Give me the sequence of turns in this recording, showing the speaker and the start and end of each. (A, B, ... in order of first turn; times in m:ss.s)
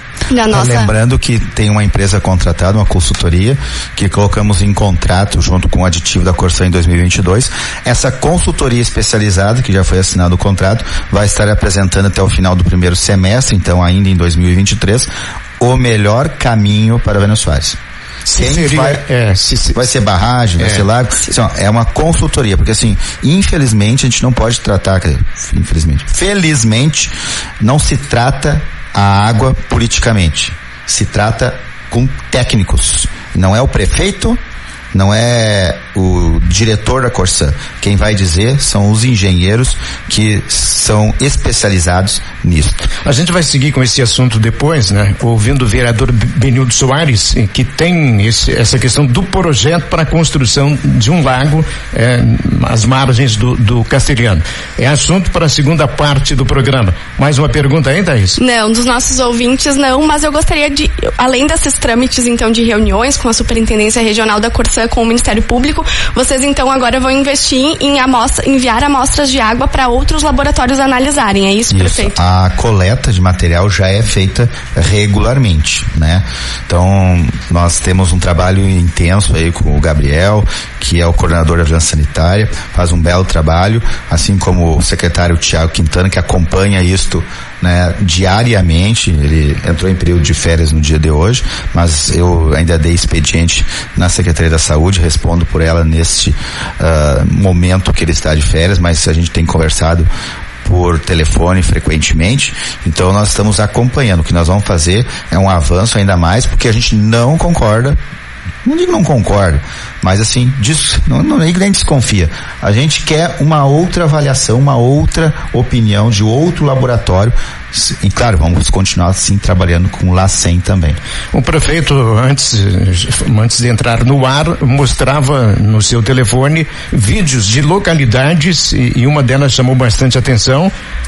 0:00.3-0:00.9 A
0:00.5-0:17.8 B
0:18.2-0:19.9 C
0:18.3-0:19.0 B
0:19.7-0:34.4 B
0:20.6-0:20.9 C
0:34.9-0:42.9 B
0:43.0-0:58.4 C
0:58.4-1:12.2 A
1:11.7-1:40.1 B
1:40.6-1:48.0 B
1:48.6-2:01.0 B
2:01.3-2:10.7 C